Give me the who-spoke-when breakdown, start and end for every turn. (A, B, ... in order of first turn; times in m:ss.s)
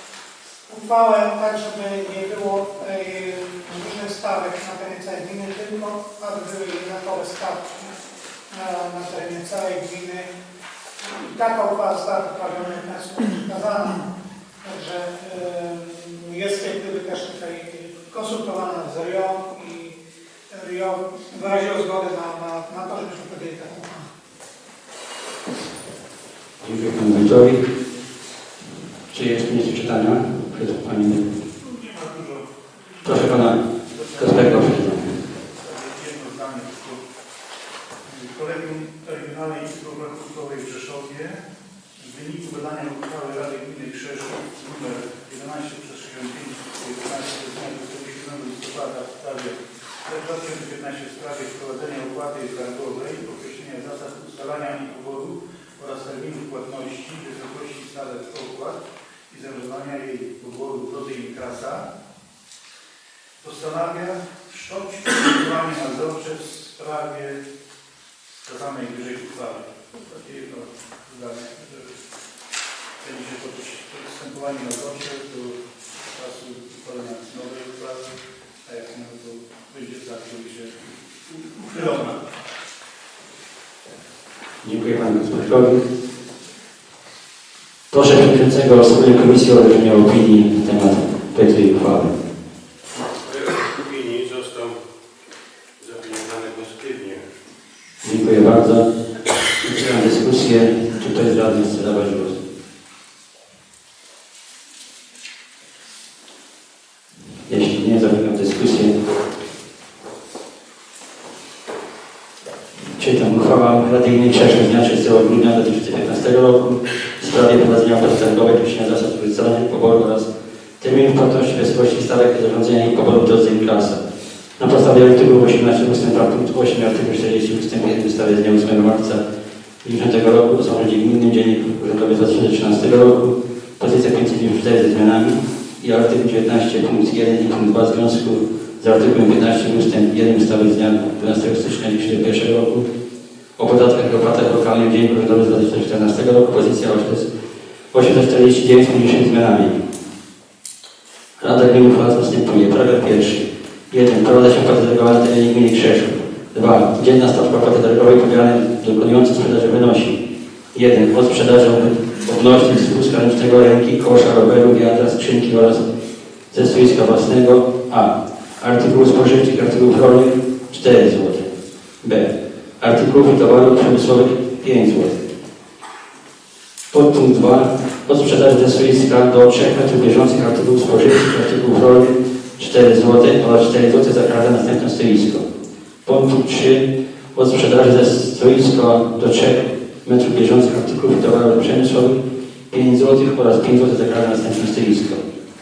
0:00.7-0:08.0 A
0:08.5-0:10.3 A
0:11.0-0:14.1 A
0:14.6-0:20.0 A
0:20.5-0:24.1 A
0:26.6-0:27.7 B
0:29.1-0:31.4 B
0:31.8-0:32.5 C
0:33.0-0:37.0 C
0:33.0-0:33.6 B
0:34.2-0:35.1 B
0:38.0-0:41.4 C
0:42.0-1:01.9 C
1:03.4-1:07.4 C
1:08.4-1:12.0 C
1:13.0-1:15.6 C
1:16.1-1:18.0 C
1:18.6-1:20.8 C
1:21.3-1:22.2 C
1:24.6-1:25.8 B
1:27.9-1:32.2 B
1:33.2-1:34.8 D
1:35.8-1:37.2 D
1:38.0-1:38.9 B
1:39.6-1:42.4 B
1:47.5-1:49.0 B
1:53.0-2:04.0 B
2:04.6-2:09.2 B
2:09.8-2:22.9 B
2:23.6-2:27.3 B
2:27.9-2:29.8 B
2:31.4-2:40.2 B
2:40.7-2:45.8 B
2:46.5-2:51.5 B
2:52.0-2:55.2 B
2:56.9-3:05.5 B
3:06.0-3:15.2 B